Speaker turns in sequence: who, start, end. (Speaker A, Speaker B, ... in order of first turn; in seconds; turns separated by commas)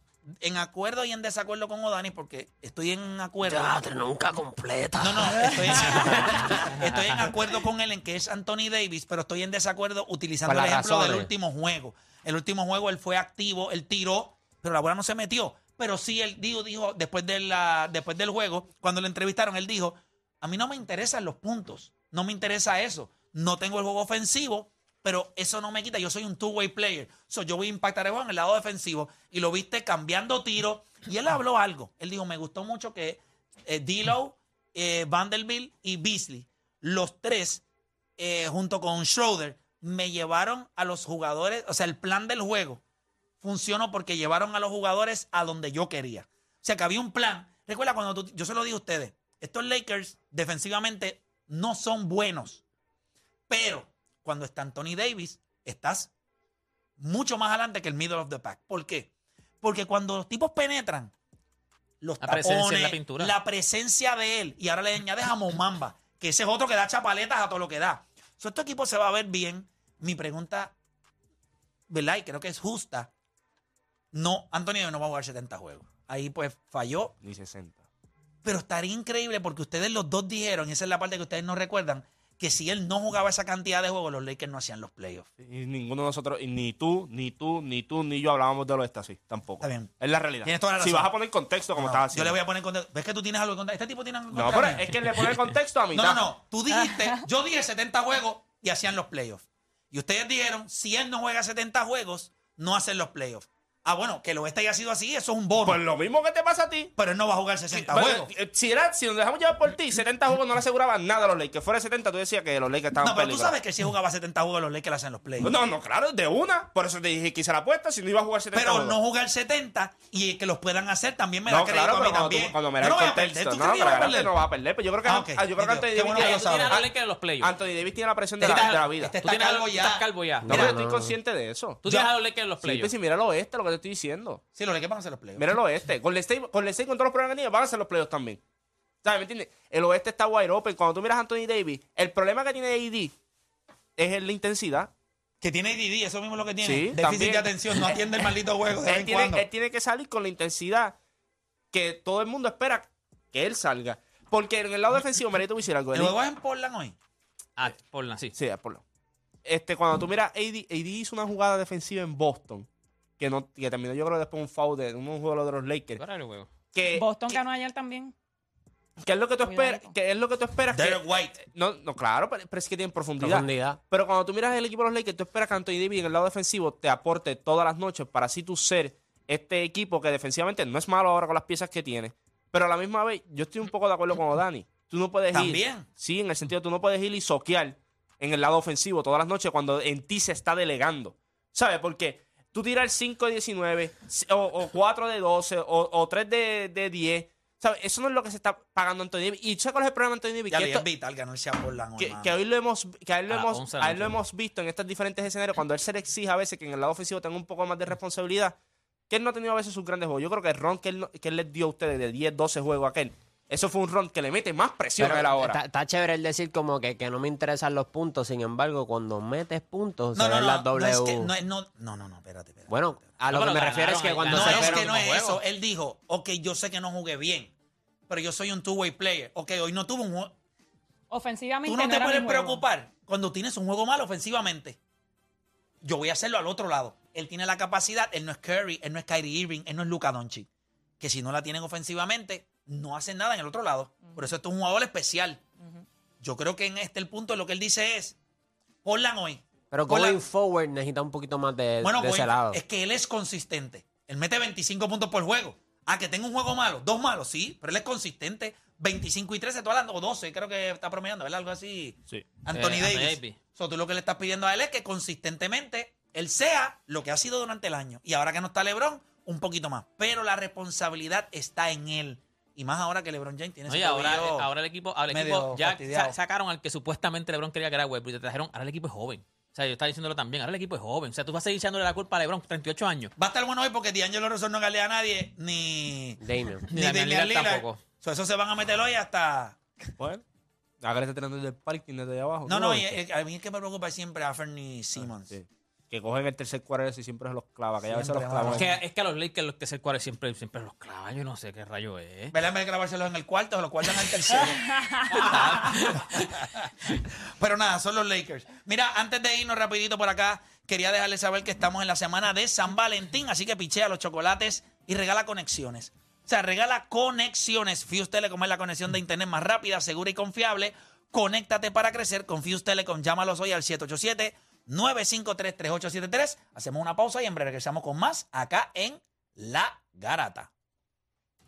Speaker A: 0.4-3.8, Speaker B: 3.5-6.6, Speaker A: 5.0-37.6, Speaker C: 5.8-7.3, Speaker B: 10.5-11.3, Speaker A: 38.2-42.8, Speaker A: 43.4-52.6, Speaker A: 53.5-56.1, Speaker A: 57.0-59.1, Speaker A: 59.6-61.1, Speaker A: 62.0-70.8, Speaker C: 62.2-63.3, Speaker A: 71.9-73.1, Speaker A: 74.1-77.1, Speaker D: 77.2-77.8, Speaker A: 78.4-85.3, Speaker D: 85.4-92.4, Speaker A: 89.6-91.1, Speaker A: 91.7-95.3, Speaker D: 94.3-96.3, Speaker C: 95.1-95.4, Speaker A: 95.9-105.8, Speaker E: 96.7-97.2, Speaker D: 105.6-106.9, Speaker A: 107.0-108.3, Speaker D: 107.7-113.6, Speaker A: 113.0-115.5, Speaker D: 115.4-119.0, Speaker A: 118.5-124.4, Speaker D: 121.5-129.2, Speaker A: 125.0-126.7, Speaker C: 126.2-127.5, Speaker C: 128.4-130.7, Speaker A: 128.5-130.7, Speaker D: 130.4-131.9, Speaker B: 130.7-131.1, Speaker C: 131.8-132.9, Speaker A: 131.9-132.1, Speaker D: 132.6-134.4, Speaker A: 134.6-135.5, Speaker D: 135.4-138.4, Speaker D: 139.0-143.2, Speaker D: 144.0-144.9, Speaker A: 145.4-149.4, Speaker D: 146.6-148.0, Speaker D: 148.8-151.0, Speaker D: 151.7-156.2, Speaker A: 155.9-156.9, Speaker C: 157.6-158.3, Speaker D: 158.3-158.8, Speaker D: 159.4-162.7, Speaker D: 163.2-166.0, Speaker C: 166.0-166.5, Speaker D: 166.7-167.4, Speaker E: 166.9-168.1, Speaker D: 169.0-200.9, Speaker E: 169.4-169.9, Speaker A: 170.7-171.4, Speaker B: 173.2-173.8, Speaker A: 185.3-185.9, Speaker A: 200.5-202.3, Speaker D: 202.0-208.6, Speaker C: 203.3-204.2, Speaker D: 209.1-215.6, Speaker B: 215.0-221.3, Speaker A: 220.2-222.8, Speaker B: 222.7-224.9, Speaker C: 223.3-225.4, Speaker A: 224.3-227.5, Speaker A: 228.1-230.3, Speaker E: 231.1-232.7, Speaker A: 231.7-234.8, Speaker A: 235.8-240.5, Speaker A: 241.0-245.4, Speaker A: 246.2-248.2, Speaker A: 248.8-250.2, Speaker B: 249.7-252.6, Speaker A: 251.8-274.5, Speaker D: 262.1-262.4, Speaker C: 262.5-263.4, Speaker C: 273.7-283.1, Speaker A: 275.1-276.1, Speaker A: 283.2-286.2, Speaker B: 286.2-286.7, Speaker C: 286.7-287.8, Speaker A: 286.7-289.6, Speaker D: 290.0-290.2, Speaker D: 290.8-293.0, Speaker A: 292.5-295.3, Speaker D: 295.0-298.7, Speaker A: 297.9-298.8, Speaker C: 298.5-302.3, Speaker A: 302.3-330.5, Speaker E: 304.6-305.7, Speaker C: 305.1-306.4